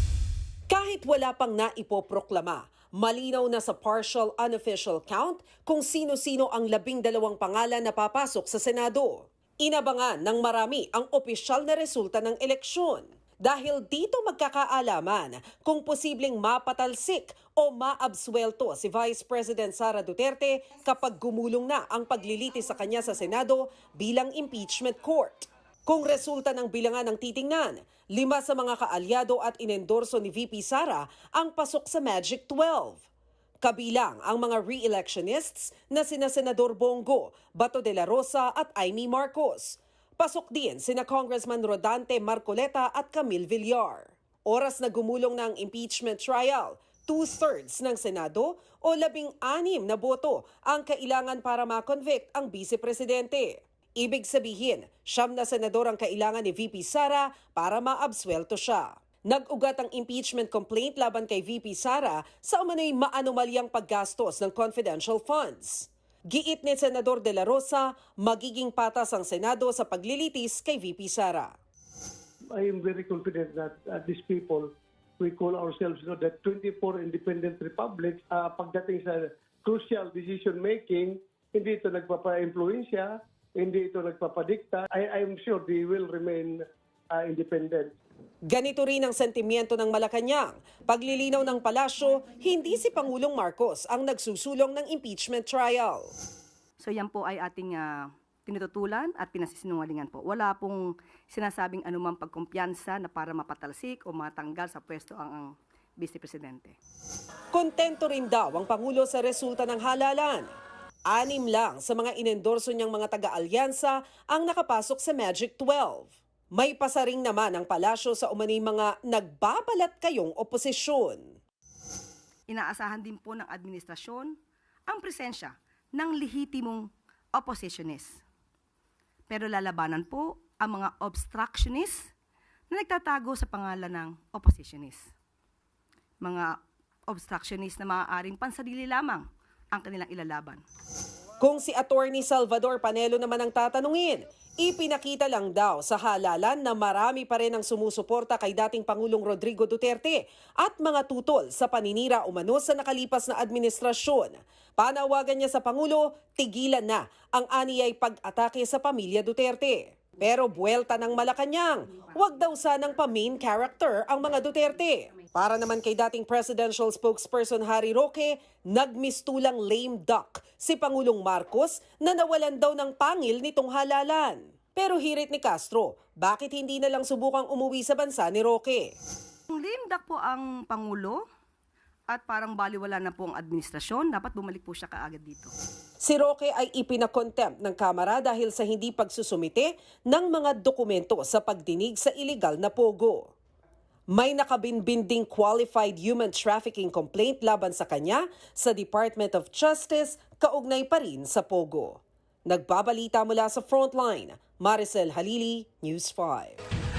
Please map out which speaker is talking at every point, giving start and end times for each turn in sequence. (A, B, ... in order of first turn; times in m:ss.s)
0:00.7-0:33.0 A
0:33.6-1:11.5 A
1:12.5-1:26.6 B
1:27.1-1:27.9 B
1:28.5-1:36.1 A
1:36.8-1:46.8 C
1:47.5-1:50.5 A
1:51.1-2:01.3 A
2:02.5-2:04.3 C
2:04.9-2:08.2 C
2:09.3-2:12.1 C
2:12.7-2:15.1 C
2:16.2-2:16.5 C
2:17.1-2:20.6 C
2:21.4-2:58.9 A
2:59.5-3:01.2 C
3:02.1-3:05.5 C
3:06.0-3:13.3 A
3:14.1-3:26.6 A